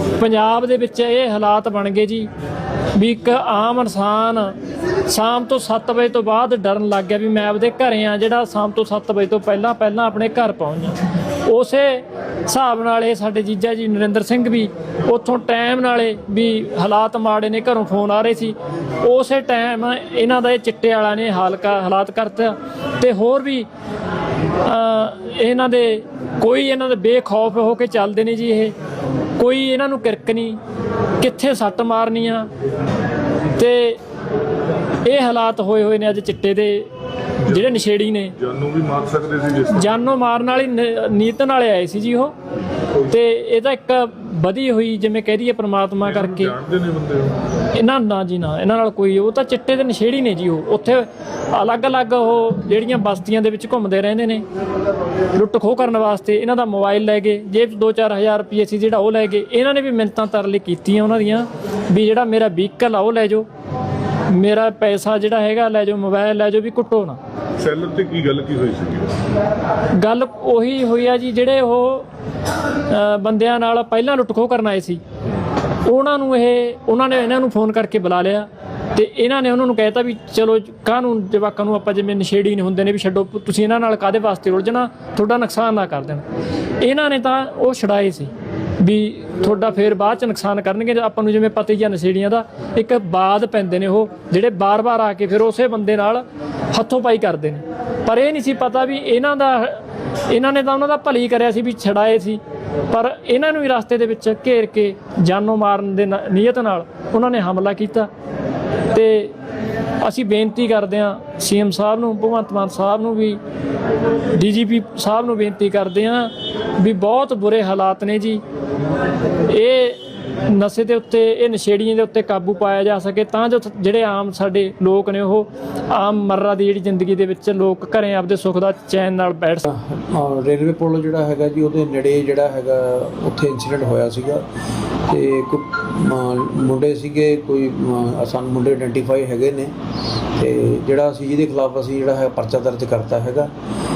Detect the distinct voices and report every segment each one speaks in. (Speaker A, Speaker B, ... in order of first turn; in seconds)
Speaker A: 0.2-2.3, 2.9-4.5, 5.1-23.7, 24.6-28.7, 29.4-30.6, 31.2-32.5, 33.5-34.0, 35.0-36.9, 37.5-38.3, 39.7-42.3, 43.1-46.5, 47.8-54.5, 55.3-63.5, 64.3-67.2, 70.0-72.1, 72.9-75.0, 75.8-86.2, 86.8-108.1, 108.9-109.3, 110.0-113.4, 114.4-118.4, 119.5-129.6
Speaker B: 37.4-37.8, 38.4-39.9, 46.0-47.4, 67.6-69.1
Speaker C: 129.7-134.4, 135.1-139.7, 140.4-143.5